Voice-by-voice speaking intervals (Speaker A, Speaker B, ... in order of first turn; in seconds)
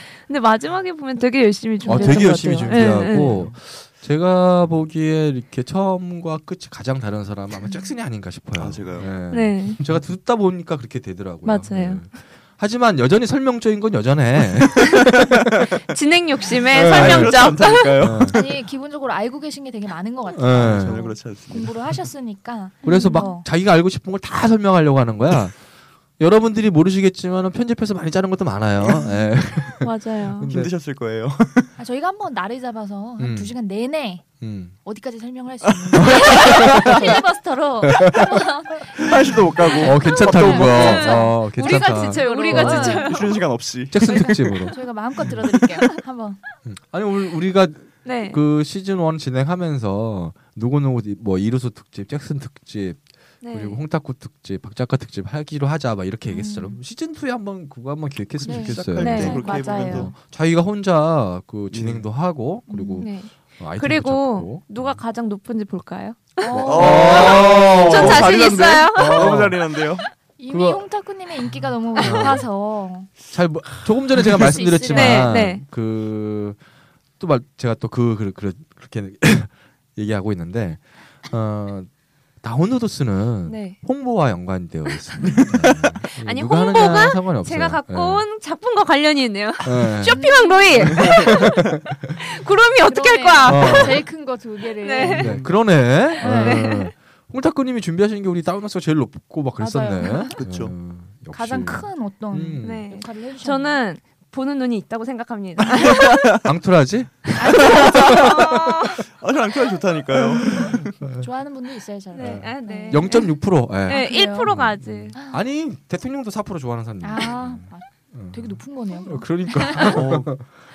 Speaker A: 0.2-3.3, 9.3-9.8, 11.4-12.0, 15.9-18.1, 22.8-23.3, 29.8-30.5, 40.0-43.4, 48.0-48.4, 53.4-53.8, 59.0-60.1, 63.0-69.5, 72.0-72.3, 74.9-75.6, 83.5-83.8, 86.1-94.0, 94.8-95.4, 96.2-96.9, 102.6-106.4, 107.4-109.0, 112.1-113.3, 113.8-115.2
Speaker B: 1.9-15.7, 16.7-17.5, 18.0-18.4, 20.3-21.0, 22.8-25.6, 26.2-30.7, 33.2-33.5, 34.4-34.7, 36.0-37.0, 37.8-38.3, 39.8-43.0, 43.9-44.8, 46.6-53.0, 53.5-65.0, 66.5-69.6, 70.5-70.8, 72.0-72.5, 73.3-76.6, 77.2-81.9, 82.4-88.2, 89.6-90.2, 90.9-91.8, 93.4-94.0, 95.1-102.9, 106.4-108.6, 110.4-110.8, 112.2-120.5
Speaker C: 1.9-2.1, 18.3-23.5, 31.8-34.2, 34.8-43.2, 44.0-46.4, 56.3-56.8, 58.4-59.6, 62.7-63.1, 66.4-67.3, 70.4-73.1, 74.2-75.4, 90.0-91.0, 92.8-95.3, 96.2-96.5, 99.6-100.3, 101.3-103.8, 107.4-108.2, 110.5-114.5, 115.1-115.4, 117.0-120.0
Speaker D: 3.0-3.5, 8.6-9.2, 15.0-15.7, 16.7-18.5, 20.5-21.9, 28.8-29.1, 30.4-31.7, 35.7-37.1, 39.0-41.1, 42.5-44.6, 58.4-60.1, 61.7-62.1, 66.7-70.1, 85.2-86.0, 95.0-95.5, 96.2-96.5, 100.3-100.7, 107.6-108.4, 109.1-110.9, 119.8-120.3